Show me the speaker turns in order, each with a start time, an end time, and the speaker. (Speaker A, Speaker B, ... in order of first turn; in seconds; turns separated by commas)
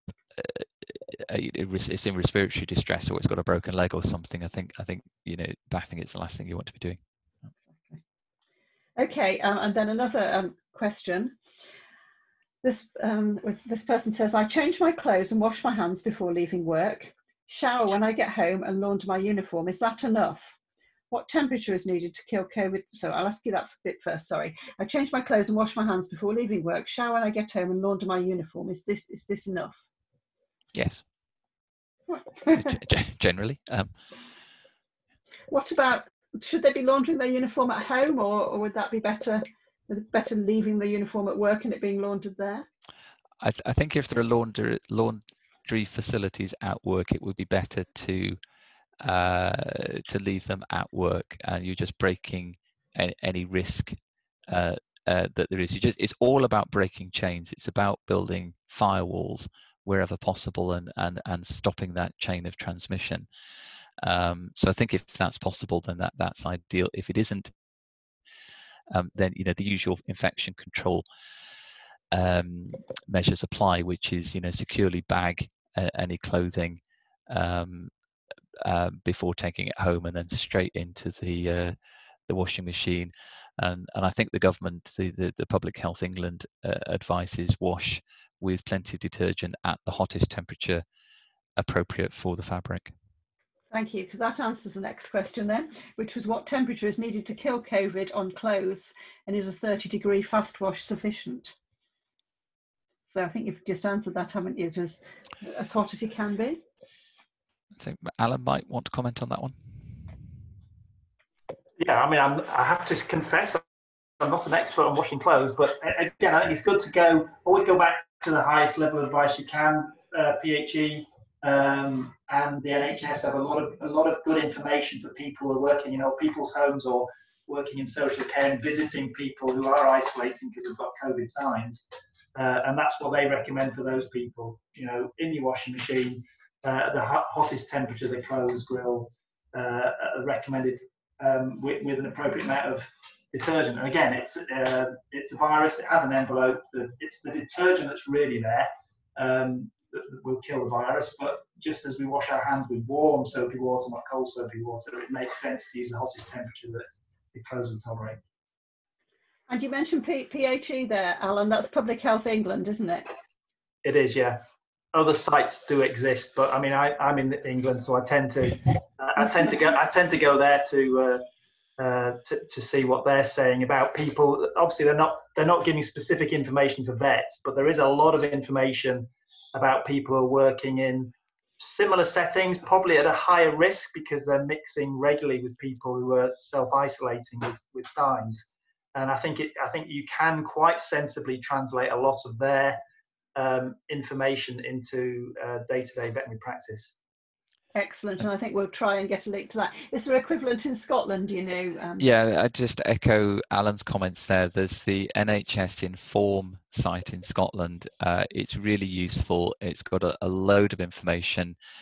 Speaker A: 0.3-7.0, Speaker B: 9.0-11.3, Speaker B: 12.6-20.6, Speaker B: 21.1-29.8, Speaker A: 30.7-31.0, Speaker B: 32.1-32.7, Speaker A: 32.5-34.0, Speaker B: 35.5-42.7, Speaker A: 43.4-48.4, Speaker A: 49.0-54.0, Speaker A: 54.5-63.3, Speaker A: 64.0-67.5, Speaker A: 68.9-71.0, Speaker A: 72.1-77.9, Speaker A: 78.6-81.8, Speaker A: 82.3-90.8, Speaker A: 91.6-92.9, Speaker B: 93.7-101.5, Speaker B: 103.1-106.6, Speaker A: 107.8-109.5, Speaker C: 111.8-113.6, Speaker C: 114.2-158.2, Speaker B: 159.5-163.1, Speaker C: 163.8-164.4, Speaker C: 164.9-171.2, Speaker C: 171.8-188.4, Speaker C: 188.9-192.8, Speaker C: 193.3-196.9, Speaker B: 197.7-202.1, Speaker A: 202.0-211.6